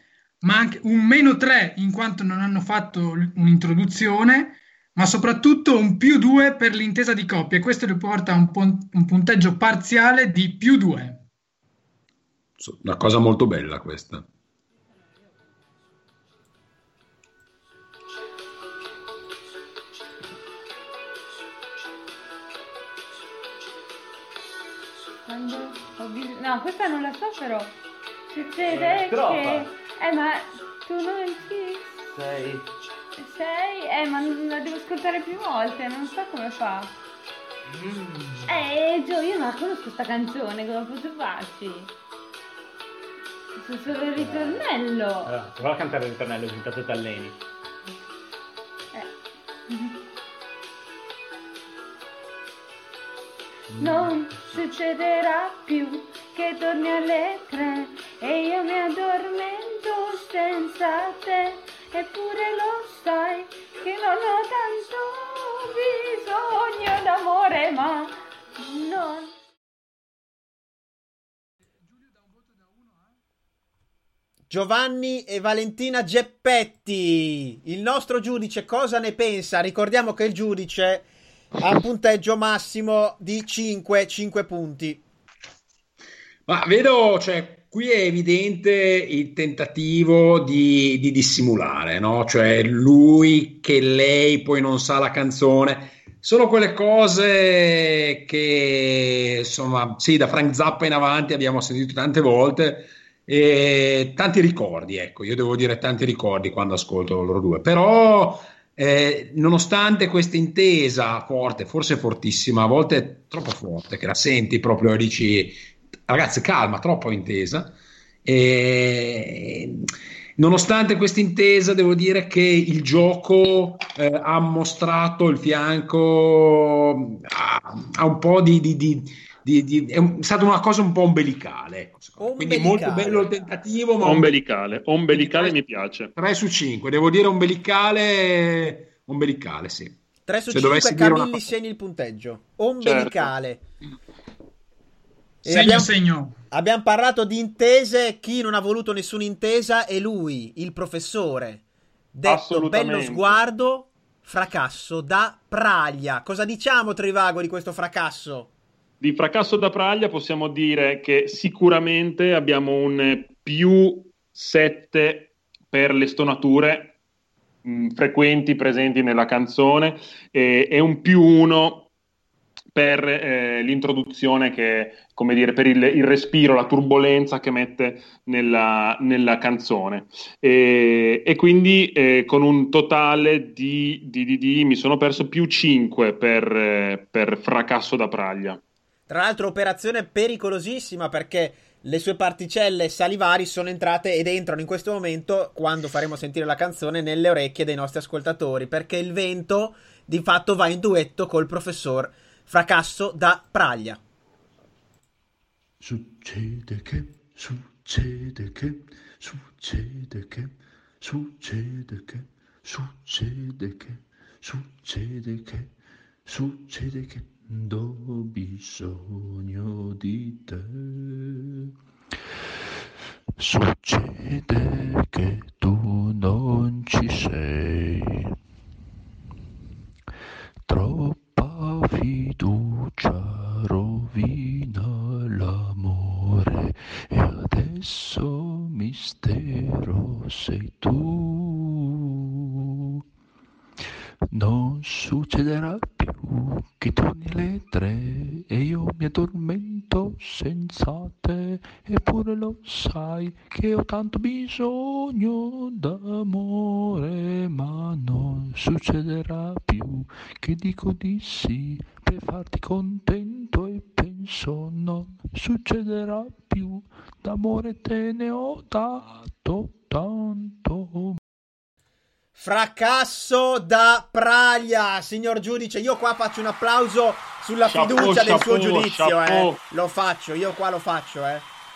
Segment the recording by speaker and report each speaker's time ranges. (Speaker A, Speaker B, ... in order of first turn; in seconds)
Speaker A: 0.4-11.2, 145.4-146.3
Speaker B: 12.6-14.3, 86.5-134.4, 135.1-135.6, 136.2-141.5
Speaker C: 25.3-27.8, 28.3-31.9, 33.2-37.0, 38.5-41.9, 43.6-45.3, 49.7-50.0, 53.8-69.3
Speaker D: 28.6-29.7, 32.1-32.7, 37.7-38.6, 44.1-44.7, 45.3-47.4
Speaker E: 74.5-81.1, 81.6-85.0, 132.2-133.3, 140.3-143.6, 145.4-145.9, 146.5-151.6, 152.1-158.5, 189.1-204.0, 272.4-281.5
Speaker F: 134.0-136.1, 142.8-143.3, 152.2-153.4, 159.0-166.9, 167.6-171.9, 172.7-188.6, 277.6-279.6
Speaker G: 205.8-221.7, 223.4-228.4, 230.7-241.9, 244.3-271.2